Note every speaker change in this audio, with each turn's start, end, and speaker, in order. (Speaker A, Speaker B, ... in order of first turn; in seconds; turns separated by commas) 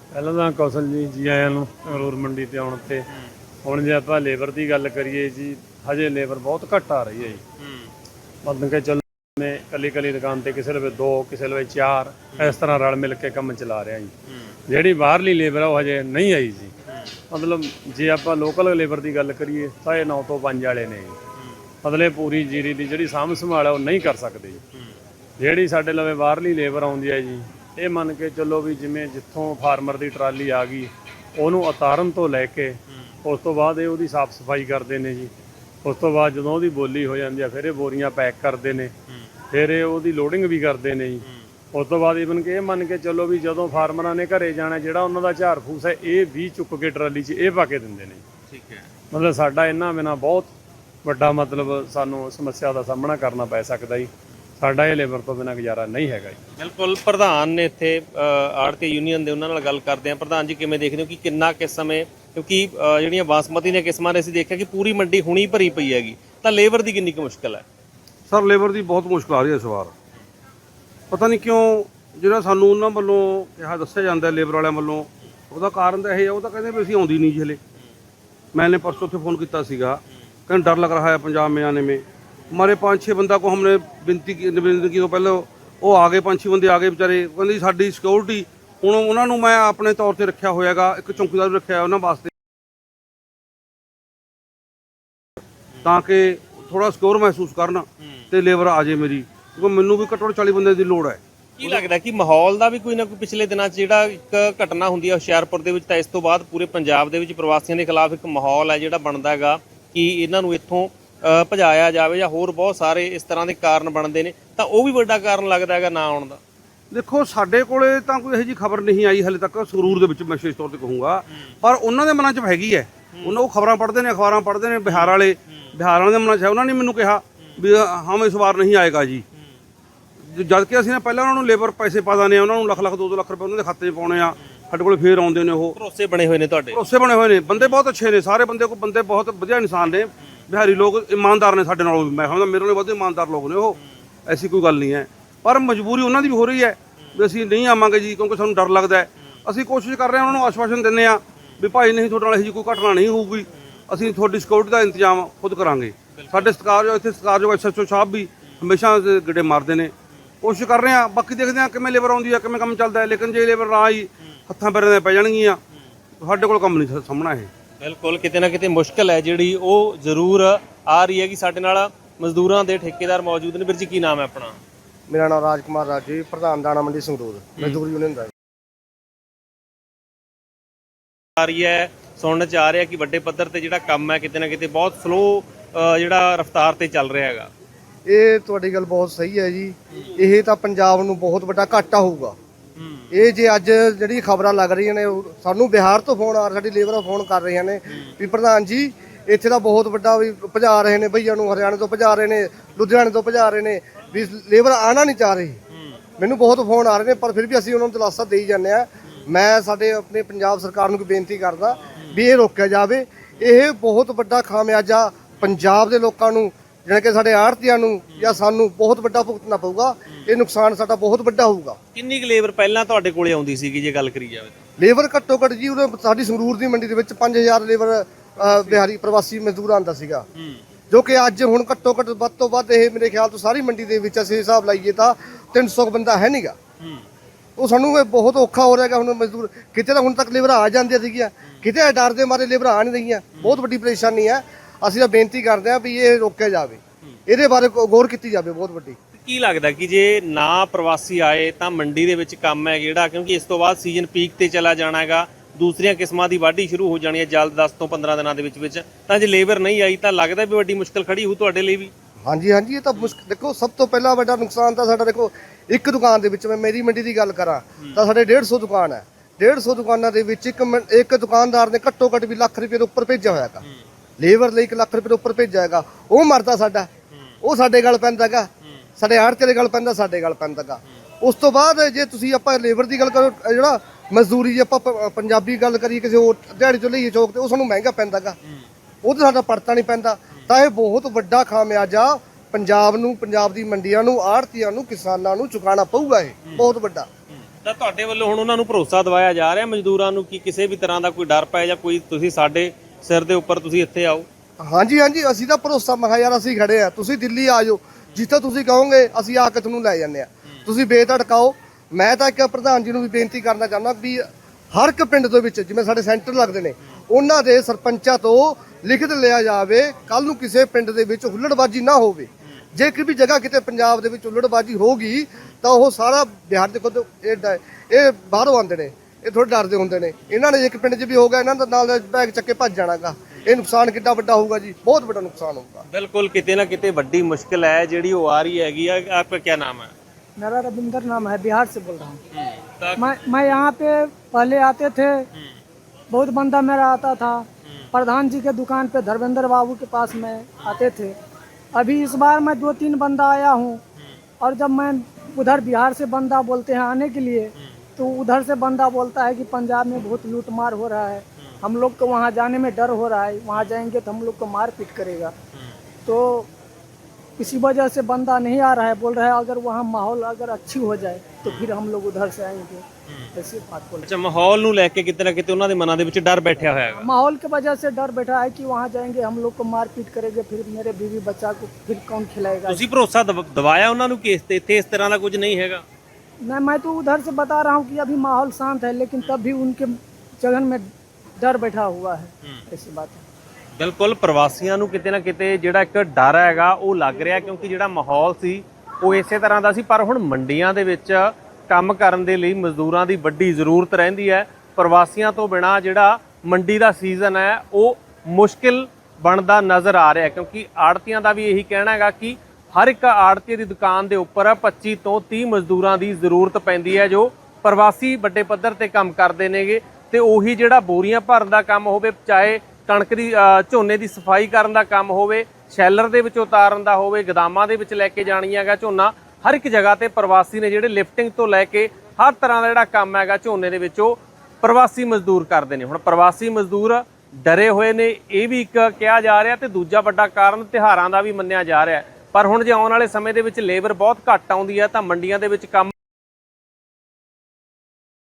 Speaker A: 0.1-3.1, Speaker A: 3.6-7.4, Speaker B: 7.6-7.9, Speaker A: 8.4-14.1, Speaker A: 14.7-16.7, Speaker A: 17.3-21.2, Speaker A: 21.8-24.6, Speaker A: 25.4-35.3, Speaker A: 35.8-38.9, Speaker A: 39.5-48.2, Speaker B: 48.5-48.9, Speaker A: 49.1-50.5, Speaker A: 51.0-56.4, Speaker B: 56.6-67.6, Speaker C: 68.3-69.9, Speaker C: 71.1-77.6, Speaker C: 78.5-92.3, Speaker C: 95.8-101.8, Speaker B: 101.6-116.4, Speaker C: 116.9-129.2, Speaker C: 130.3-135.8, Speaker B: 135.8-136.8, Speaker C: 136.7-165.6, Speaker C: 166.2-167.5, Speaker B: 167.8-174.6, Speaker D: 175.1-178.3, Speaker B: 181.4-187.5, Speaker D: 188.1-192.3, Speaker B: 192.8-193.1, Speaker D: 193.1-205.6, Speaker D: 206.2-221.8, Speaker B: 221.9-224.6, Speaker D: 224.8-230.3, Speaker D: 230.9-236.6, Speaker D: 237.6-249.0, Speaker B: 249.2-261.9, Speaker D: 262.2-273.6, Speaker D: 274.2-276.9, Speaker D: 277.4-288.4, Speaker D: 289.0-297.1, Speaker B: 297.4-304.3, Speaker D: 304.6-335.9, Speaker B: 335.9-339.9, Speaker E: 340.4-342.2, Speaker B: 342.3-343.1, Speaker E: 343.0-345.3, Speaker E: 346.1-351.2, Speaker E: 351.7-353.8, Speaker E: 354.4-365.3, Speaker E: 366.1-366.5, Speaker E: 367.4-374.1, Speaker B: 374.0-377.1, Speaker E: 376.9-382.8, Speaker B: 382.7-385.8, Speaker E: 386.4-390.9, Speaker E: 391.4-393.2, Speaker B: 393.8-445.9